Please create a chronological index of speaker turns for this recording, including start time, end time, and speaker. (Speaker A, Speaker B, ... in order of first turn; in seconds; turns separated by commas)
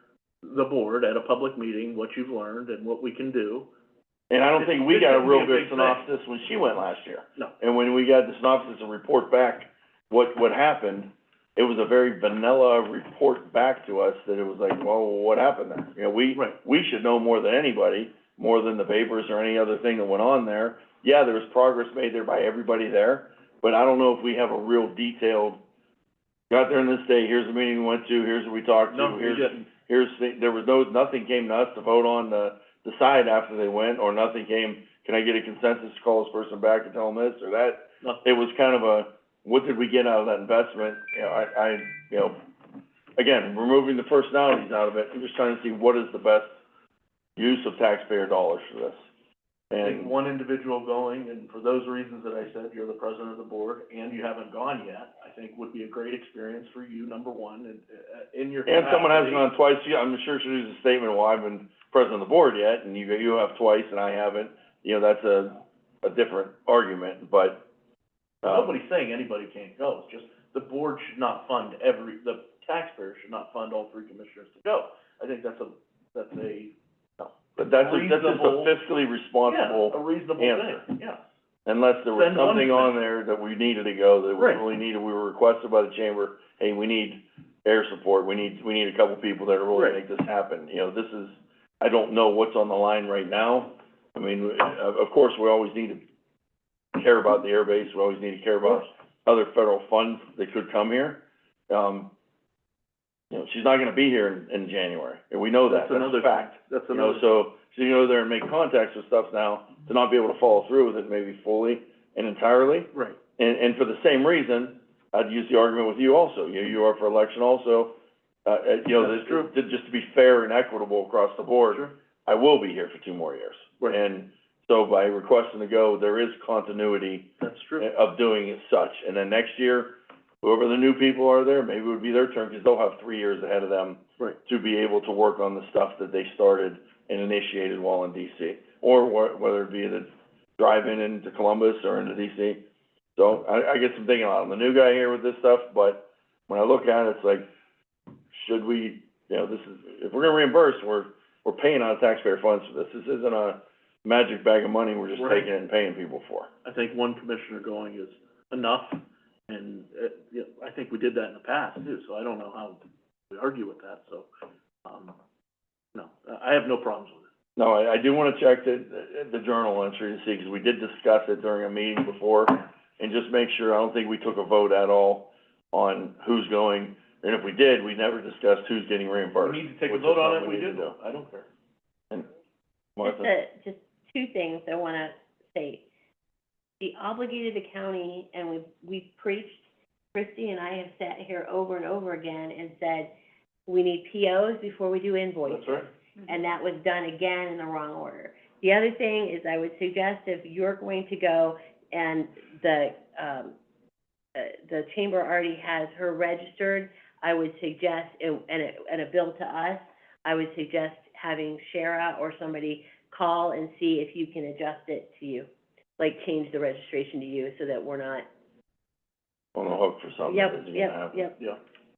Speaker A: 0.4-3.7, Speaker B: 4.3-25.6, Speaker A: 4.6-6.0, Speaker B: 26.5-42.4, Speaker A: 28.9-29.7, Speaker B: 43.1-46.5, Speaker B: 47.4-49.0, Speaker B: 49.7-50.1, Speaker A: 49.8-59.5, Speaker B: 58.7-67.7, Speaker B: 68.4-68.7, Speaker A: 68.4-76.7, Speaker B: 77.2-80.8, Speaker A: 77.6-78.8, Speaker A: 79.4-81.2, Speaker B: 81.7-96.0, Speaker A: 82.1-83.0, Speaker A: 84.4-84.6, Speaker A: 89.7-90.0, Speaker B: 97.0-102.1, Speaker B: 103.3-117.9, Speaker A: 105.7-107.3, Speaker A: 112.9-113.2, Speaker B: 118.4-142.6, Speaker A: 118.9-119.5, Speaker A: 127.4-127.9, Speaker B: 143.2-147.5, Speaker B: 148.3-156.5, Speaker A: 155.1-155.5, Speaker A: 156.6-164.3, Speaker A: 164.8-165.2, Speaker A: 165.9-167.3, Speaker B: 167.6-180.9, Speaker A: 179.4-181.5, Speaker B: 182.9-183.3, Speaker C: 183.0-185.8, Speaker C: 186.8-189.6, Speaker C: 190.1-193.1, Speaker C: 193.7-203.5, Speaker A: 195.4-195.9, Speaker C: 204.3-215.5, Speaker C: 216.0-218.2, Speaker B: 219.5-221.3, Speaker C: 220.2-221.3